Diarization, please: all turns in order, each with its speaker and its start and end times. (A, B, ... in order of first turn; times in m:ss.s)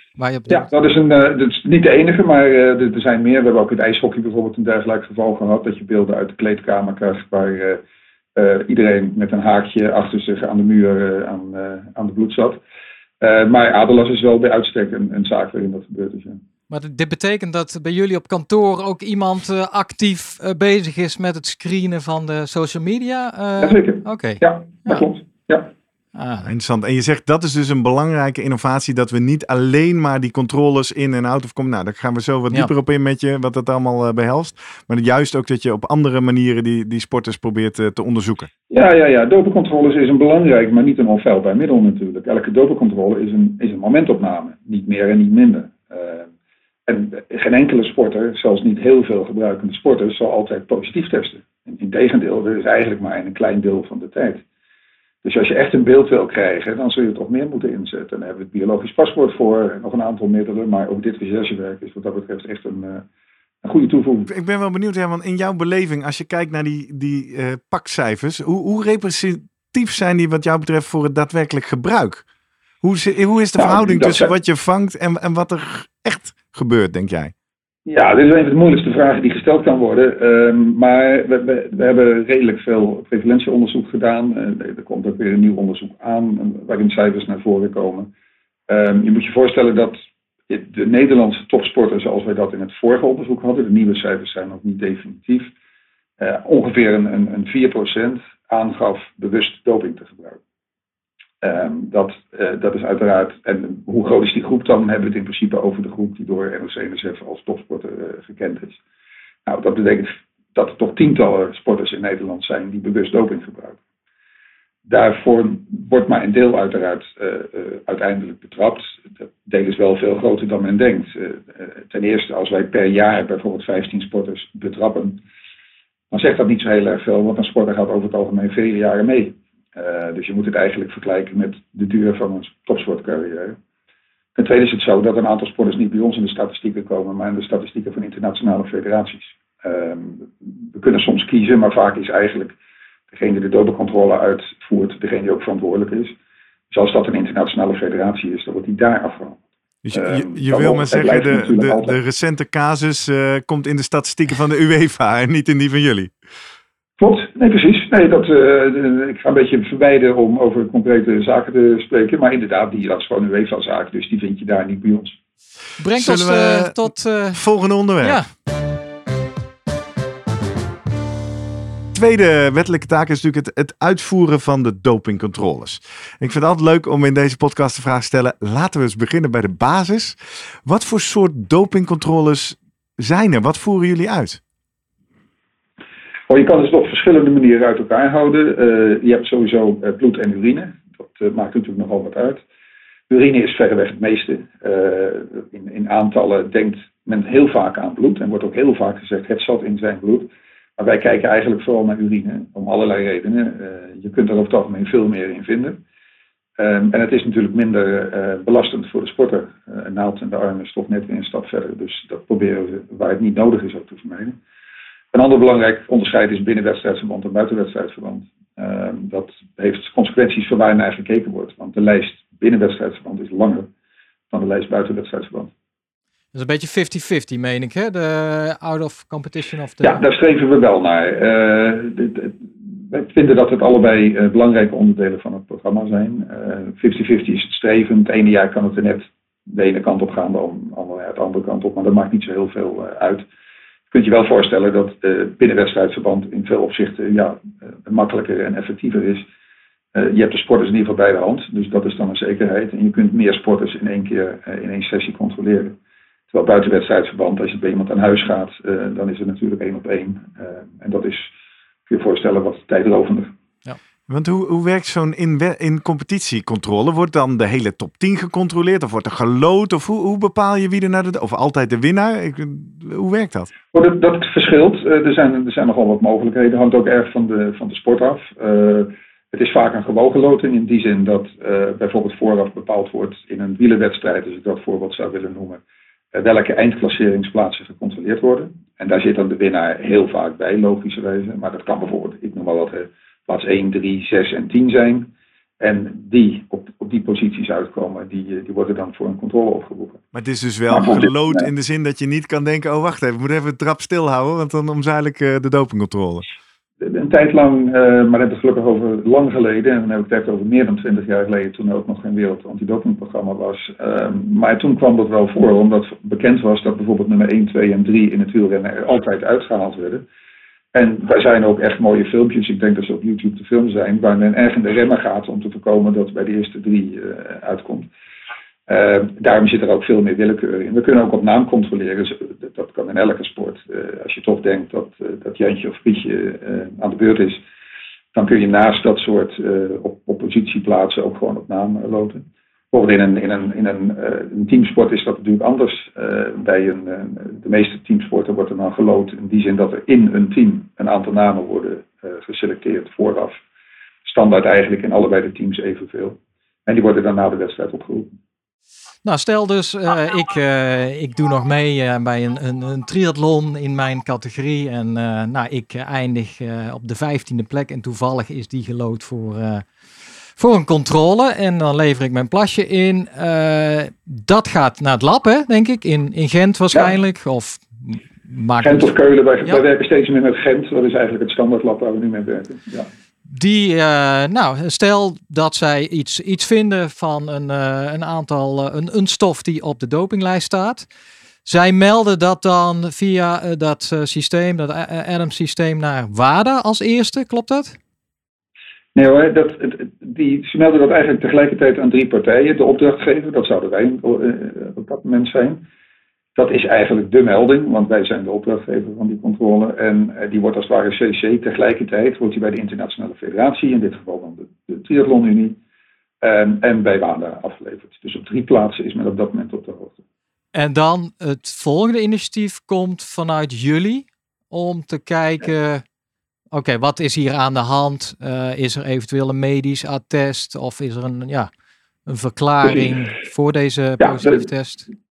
0:00.2-0:00.7 A
0:00.5-0:07.8 B
0:08.4-0:12.6 B
0:13.2-0:16.4 B
0:16.7-0:25.1 A
0:23.6-0:25.7 B
0:26.1-0:26.5 A
0:26.4-0:38.5 C
0:38.7-0:46.3 B
0:46.9-0:54.4 B
0:55.2-1:03.1 B
1:03.6-1:04.3 B
1:04.3-1:12.2 C
1:12.8-1:17.3 C
1:13.6-1:14.3 B
1:17.9-1:28.1 B
1:28.7-1:35.5 B
1:36.2-1:40.4 B
1:41.4-1:48.8 B
1:49.4-1:53.8 B
1:54.9-2:05.2 B
2:06.1-2:13.6 B
2:14.4-2:22.6 B
2:23.1-2:26.2 B
2:26.7-2:29.4 B
2:29.8-2:36.1 C
2:29.9-2:32.0 B
2:37.0-2:45.2 B
2:45.8-2:47.4 A
2:46.0-2:46.8 C
2:47.3-2:48.2 C
2:48.0-2:48.3 A
2:51.9-3:04.4 C
3:06.3-3:12.4 B
3:13.1-3:25.8 B
3:26.6-3:34.4 B
3:35.1-3:43.7 B
3:44.3-3:45.5 B
3:46.3-3:50.0 A
3:49.8-4:03.3 B
4:03.9-4:09.3 B
4:09.9-4:15.8 B
4:16.3-4:21.3 B
4:21.9-4:23.3 B
4:24.1-4:33.5 C
4:33.7-4:45.6 B
4:46.1-5:00.0 B
5:00.1-5:06.3 C
5:00.7-5:01.5 B
5:06.8-5:20.0 B
5:20.7-5:27.9 B
5:28.7-5:37.4 B
5:38.1-5:53.4 B
5:54.0-5:58.2 B
5:59.0-6:09.6 A
6:10.4-6:18.9 A
6:18.6-6:22.9 B
6:23.3-6:30.9 A
6:31.4-6:37.8 A
6:38.9-6:45.6 B
6:46.4-6:55.6 B
6:56.2-7:00.0 B
7:00.5-7:05.8 A
7:06.5-7:11.5 A
7:12.1-7:14.9 A
7:12.6-7:12.9 B
7:14.0-7:14.5 B